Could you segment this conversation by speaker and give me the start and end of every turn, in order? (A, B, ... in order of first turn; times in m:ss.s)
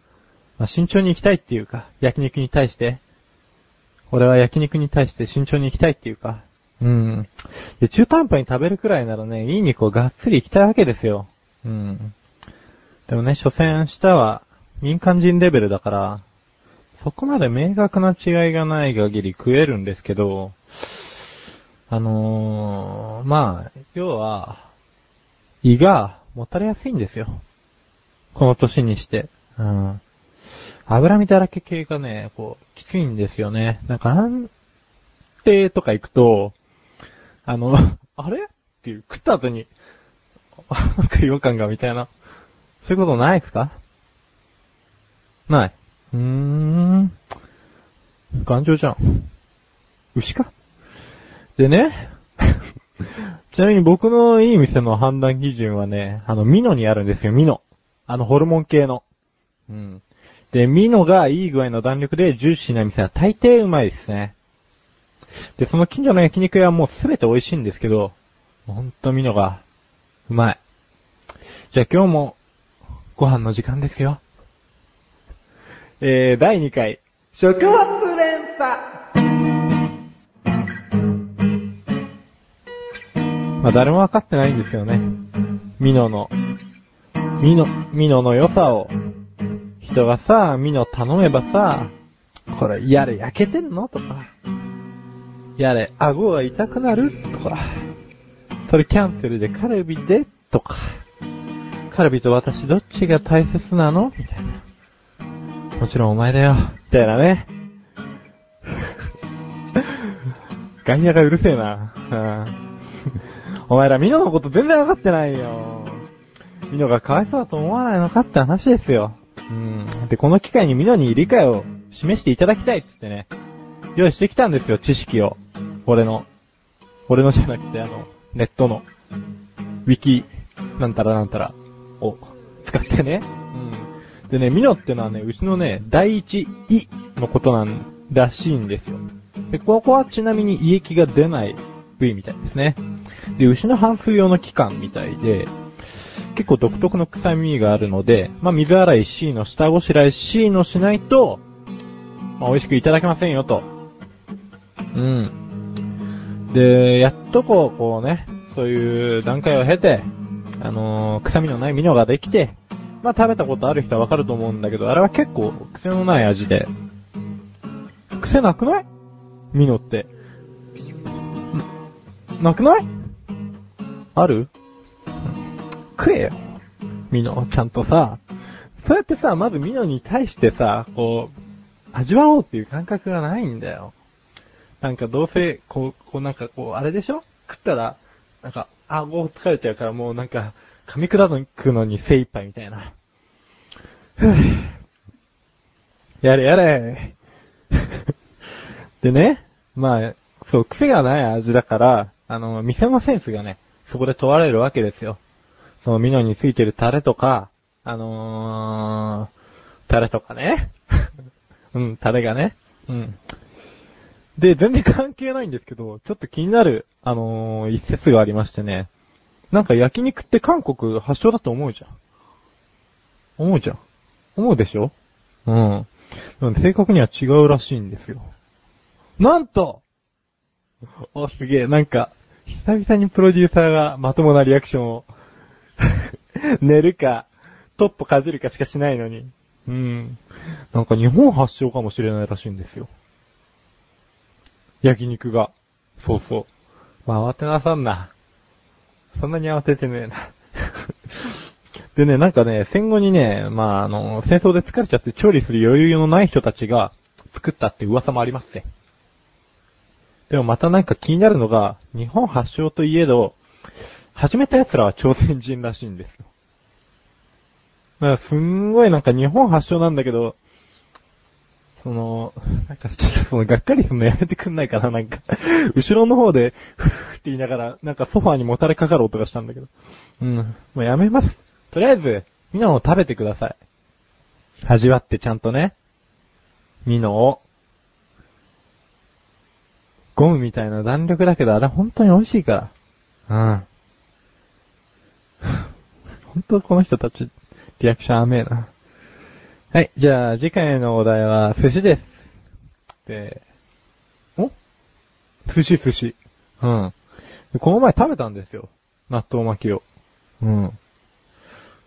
0:00.6-0:03.0 A
0:04.1-0:12.2 A
0:13.1-0:16.2 A
0:17.0-0:21.1 A
0:21.9-0:24.6 A
0:25.6-0:27.4 A
0:28.3-0:30.0 A
0:30.9-0:34.5 A
0:35.4-0:36.6 A
0:37.5-0:39.7 A
0:40.7-0:42.1 A
0:42.8-0:43.8 A
0:45.5-0:47.1 A
0:48.4-0:49.3 A
0:50.2-0:50.5 A
0:51.6-0:52.2 A
0:53.0-0:59.0 A
0:59.7-1:04.4 A
1:05.6-1:08.2 A
1:08.7-1:09.6 A
1:10.3-1:10.6 A
1:11.7-1:12.4 A
1:13.2-1:14.2 A
1:16.0-1:18.8 A
1:23.6-1:25.1 A
1:25.8-1:26.3 A
1:27.4-1:28.9 A
1:29.8-1:31.9 A
1:32.5-1:34.3 A
1:35.6-1:37.8 A
1:38.7-1:41.0 A
1:41.9-1:44.6 A
1:45.8-1:47.5 A
1:50.8-1:52.6 A
1:53.7-1:56.1 A
1:56.7-2:03.3 A
2:04.0-2:06.3 A
2:07.1-2:08.9 A
2:09.8-2:22.8 A
2:23.4-2:31.4 A
2:32.4-2:33.7 A
2:34.9-2:35.3 A
2:36.5-2:46.7 A
2:48.2-2:48.9 A
2:49.5-2:50.1 A
2:52.4-2:52.9 A
2:54.2-2:54.5 A
2:56.0-2:56.4 A
2:57.1-2:58.2 A
2:58.8-3:01.3 A
3:01.9-3:03.9 A
3:04.8-3:12.9 A
3:14.2-3:14.7 A
3:16.2-3:17.2 A
3:19.0-3:25.2 A
3:25.8-3:29.3 A
3:29.9-3:31.1 A
3:31.7-3:33.2 A
3:34.4-3:38.9 A
3:39.5-3:41.9 A
3:43.4-3:43.8 A
3:44.4-3:44.9 A
3:45.5-3:48.3 A
3:49.2-3:49.8 A
3:51.1-3:55.1 A
3:55.8-4:00.2 A
4:00.7-4:02.9 A
4:04.8-4:06.5 A
4:07.1-4:08.1 A
4:09.2-4:11.3 A
4:12.0-4:18.7 A
4:20.3-4:23.4 A
4:24.2-4:26.3 A
4:28.0-4:30.4 A
4:31.8-4:39.7 A
4:40.2-4:43.6 A
4:44.7-4:45.7 A
4:46.8-4:47.4 A
4:50.2-4:52.7 A
4:53.3-4:53.7 A
4:56.3-4:58.7 A
4:59.7-5:02.1 A
5:03.1-5:03.4 A
5:05.5-5:06.9 A
5:07.5-5:09.8 A
5:10.4-5:10.8 A